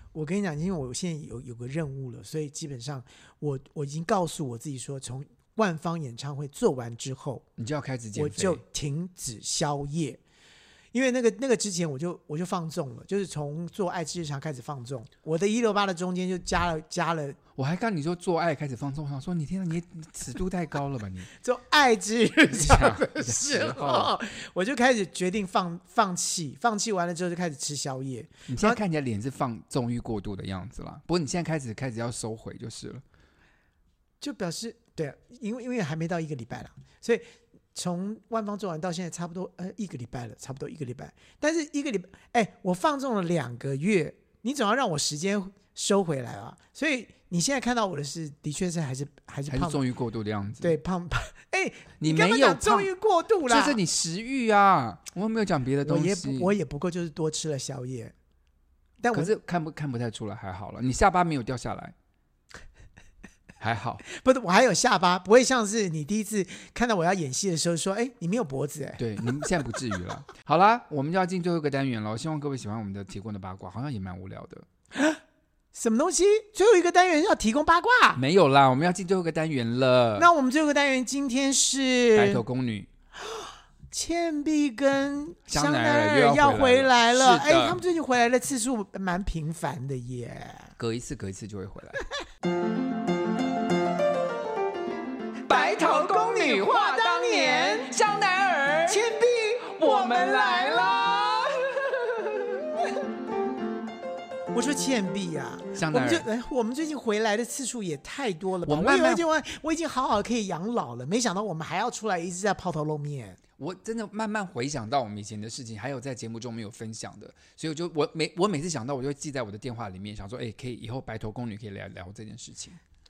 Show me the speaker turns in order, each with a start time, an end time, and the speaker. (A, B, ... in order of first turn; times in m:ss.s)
0:00.1-0:07.5 A
0:07.6-0:08.6 B
0:08.2-0:10.2 A
0:10.9-0:17.4 A
0:17.6-0:21.3 B
0:21.3-0:28.8 A
0:22.5-0:24.1 B
0:28.5-0:33.0 B
0:34.2-0:49.8 A
0:49.5-0:50.8 B
0:50.6-0:53.8 A
0:52.0-0:52.9 B
0:53.5-0:56.5 B
0:55.8-0:58.1 A
0:59.0-0:59.3 A
0:59.1-1:02.0 B
1:03.6-1:04.0 B
1:04.0-1:09.7 A
1:09.0-1:14.7 B
1:14.9-1:15.2 A
1:15.7-1:18.2 A
1:18.2-1:20.3 B
1:20.2-1:22.4 A
1:22.2-1:22.9 B
1:23.2-1:30.7 A
1:25.5-1:27.8 B
1:30.8-1:32.1 B
1:35.5-1:39.0 B
1:35.5-1:38.0 A
1:38.8-1:40.8 A
1:39.7-1:42.4 B
1:44.5-1:53.4 A
1:45.8-1:46.3 B
1:48.7-1:49.2 B
1:53.6-2:02.8 B